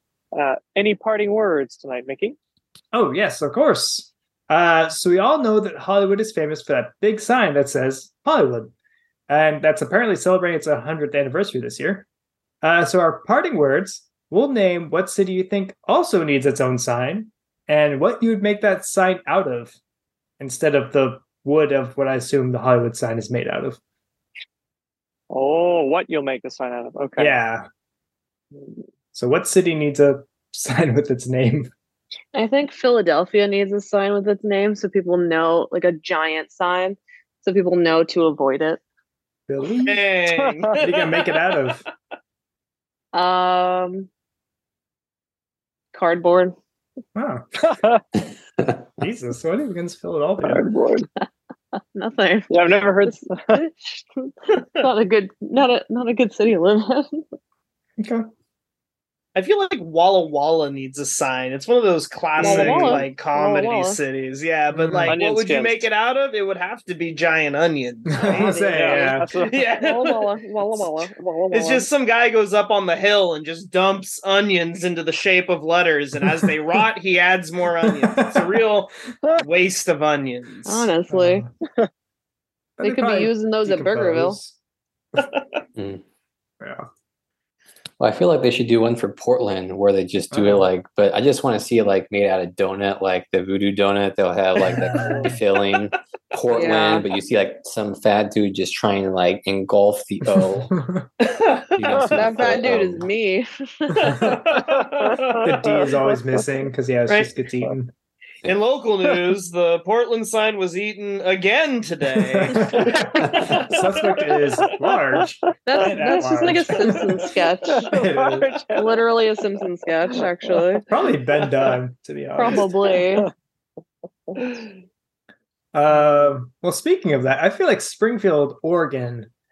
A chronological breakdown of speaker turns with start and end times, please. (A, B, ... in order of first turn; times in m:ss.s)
0:00.3-0:02.4 A
0:02.9-0:08.7 B
0:09.3-0:12.1 B
0:12.6-0:19.8 B
0:20.4-0:23.8 B
0:25.3-0:27.4 A
0:27.2-0:27.6 B
0:29.1-0:31.7 B
0:32.3-0:38.8 C
0:39.5-0:40.0 B
0:39.8-0:41.1 D
0:40.3-0:40.7 A
0:40.7-0:41.8 B
0:43.1-0:44.1 C
0:45.9-0:46.6 C
0:47.2-0:47.8 B
0:47.7-0:48.0 A
0:49.0-0:50.6 B
0:50.4-0:51.1 A
0:51.2-0:57.2 C
0:52.5-0:53.6 A
0:58.0-0:58.3 B
0:59.4-1:08.5 D
1:02.4-1:04.0 C
1:02.4-1:03.0 B
1:02.6-1:03.0 A
1:04.7-1:05.2 B
1:05.1-1:05.9 A
1:08.1-1:09.3 B
1:08.2-1:11.9 C
1:08.7-1:09.6 A
1:09.4-1:10.3 D
1:11.5-1:20.9 D
1:17.8-1:18.6 B
1:20.7-1:21.4 C
1:21.1-1:21.5 B
1:22.8-1:24.6 B
1:22.8-1:24.4 C
1:25.8-1:26.0 E
1:26.6-1:26.9 B
1:28.0-1:40.8 E
1:30.3-1:30.7 B
1:34.7-1:35.4 B
1:36.5-1:37.1 C
1:40.2-1:41.1 B
1:41.2-1:42.0 D
1:41.7-1:43.1 E
1:42.1-1:44.4 C
1:44.0-1:44.4 B
1:44.1-1:45.4 D
1:44.8-1:46.0 A
1:45.4-1:47.9 B
1:48.4-1:53.8 D
1:52.2-1:57.3 B
1:52.9-1:53.6 A
1:54.6-1:55.2 A
1:55.7-1:57.9 C
1:57.7-1:59.2 A
1:57.9-1:58.5 B
1:58.8-2:00.8 C
2:00.1-2:00.6 A
2:00.9-2:02.7 B
2:02.4-2:03.3 C
2:05.7-2:09.3 B
2:05.9-2:06.3 A